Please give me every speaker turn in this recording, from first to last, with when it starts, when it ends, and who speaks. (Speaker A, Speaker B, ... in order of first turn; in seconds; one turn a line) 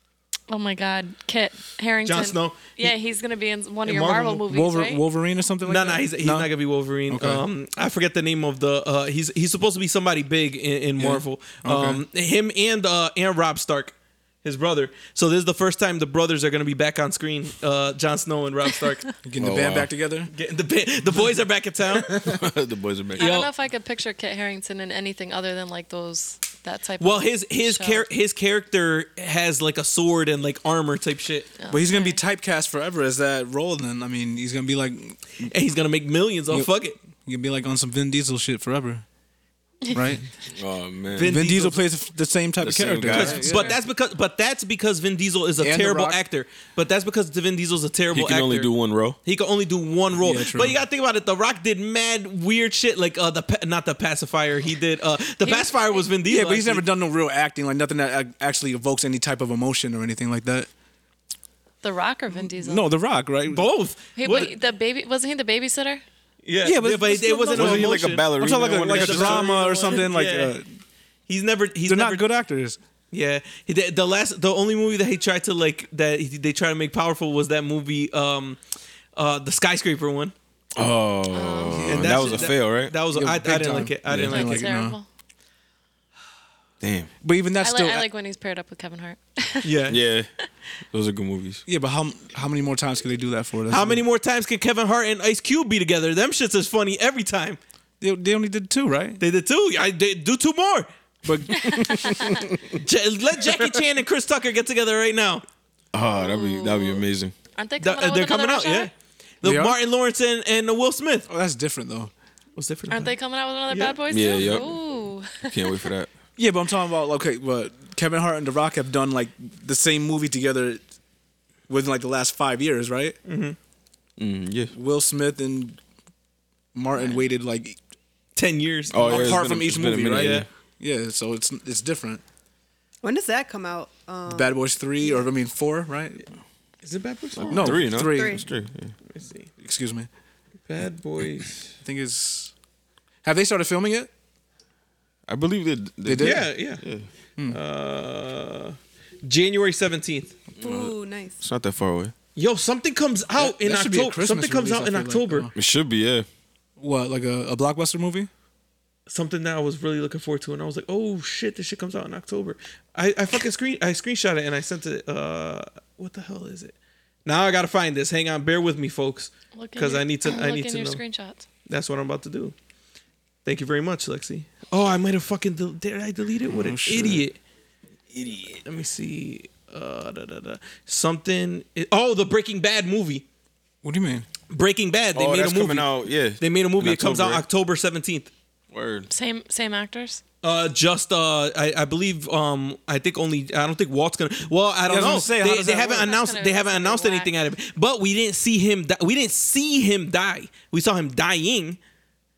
Speaker A: 0.5-5.0
Speaker B: 2.0-2.9
Speaker B: 3.8-4.4
Speaker C: 4.4-6.5
Speaker B: 5.6-19.1
Speaker C: 7.1-7.4
Speaker C: 11.0-12.0
Speaker C: 19.2-20.3
Speaker D: 19.4-19.9
Speaker B: 20.3-22.3
Speaker D: 22.2-23.3
Speaker B: 23.2-23.5
Speaker A: 23.2-28.1
Speaker B: 27.0-31.5
Speaker A: 31.6-32.2
Speaker C: 31.7-35.5
Speaker B: 35.4-37.0
Speaker C: 36.5-39.0
Speaker C: 39.9-40.2
Speaker D: 40.5-41.4
Speaker B: 41.1-41.8
Speaker C: 41.2-43.8
Speaker D: 42.6-43.7
Speaker B: 43.1-56.9
Speaker C: 45.6-46.2
Speaker D: 48.1-49.2
Speaker C: 50.2-50.8
Speaker A: 55.4-56.0
Speaker C: 56.2-60.7
Speaker A: 61.8-62.9
Speaker C: 62.4-63.7
Speaker B: 63.5-64.5
Speaker A: 64.2-66.0
Speaker B: 66.4-70.6
Speaker C: 66.6-70.7
Speaker D: 67.5-69.7
Speaker B: 71.3-72.3
Speaker C: 71.9-72.8
Speaker B: 73.1-78.6
Speaker B: 79.2-80.3
Speaker D: 80.8-82.9
Speaker A: 81.3-82.5
Speaker C: 81.8-82.4
Speaker B: 81.9-84.7
Speaker C: 83.1-85.0
Speaker D: 84.1-84.4
Speaker A: 84.2-85.1
Speaker D: 86.8-87.1
Speaker C: 87.2-88.1
Speaker A: 87.6-89.8
Speaker B: 89.6-90.0
Speaker D: 89.9-90.3
Speaker D: 90.9-91.6
Speaker C: 91.7-94.0
Speaker B: 93.7-97.6
Speaker C: 98.0-99.2
Speaker B: 99.2-100.9
Speaker C: 101.2-102.2
Speaker A: 101.5-102.4
Speaker D: 102.2-102.8
Speaker B: 102.8-105.4
Speaker D: 105.9-107.3
Speaker A: 106.1-107.0
Speaker A: 107.5-108.9
Speaker B: 107.8-111.3
Speaker C: 109.4-109.8
Speaker C: 111.3-112.1
Speaker B: 112.5-113.2
Speaker A: 112.9-115.8
Speaker B: 113.7-114.6
Speaker D: 114.1-114.8
Speaker D: 115.3-116.1
Speaker C: 116.4-120.8
Speaker C: 121.7-123.2
Speaker B: 123.3-123.6
Speaker D: 124.2-124.7
Speaker C: 124.7-125.8
Speaker C: 126.7-127.8
Speaker A: 126.9-127.2
Speaker B: 128.3-129.4
Speaker D: 128.9-130.4
Speaker C: 129.0-132.2
Speaker B: 130.1-130.4
Speaker E: 133.0-135.2
Speaker C: 134.3-136.2
Speaker B: 136.8-137.8
Speaker D: 137.4-138.9
Speaker C: 137.5-138.4
Speaker E: 138.0-138.4
Speaker B: 139.1-139.5
Speaker C: 139.6-140.1
Speaker B: 140.7-141.7
Speaker C: 141.8-142.5
Speaker C: 143.2-144.1
Speaker D: 145.3-147.1
Speaker C: 146.0-146.5
Speaker B: 146.2-146.8
Speaker B: 147.5-150.3
Speaker D: 150.6-152.1
Speaker E: 150.6-151.4
Speaker B: 152.3-155.5
Speaker C: 153.4-155.5
Speaker D: 155.5-156.3
Speaker C: 156.8-158.3
Speaker B: 159.1-166.7
Speaker B: 167.2-171.0
Speaker A: 169.5-171.4
Speaker B: 171.7-172.5
Speaker B: 173.4-177.4
Speaker C: 176.5-177.2
Speaker D: 178.2-178.6
Speaker B: 178.6-183.2
Speaker C: 183.8-184.2
Speaker B: 184.5-188.3
Speaker D: 185.1-187.4
Speaker D: 188.7-189.1
Speaker A: 189.1-190.2
Speaker B: 190.4-201.8
Speaker C: 194.9-196.1
Speaker A: 196.0-197.3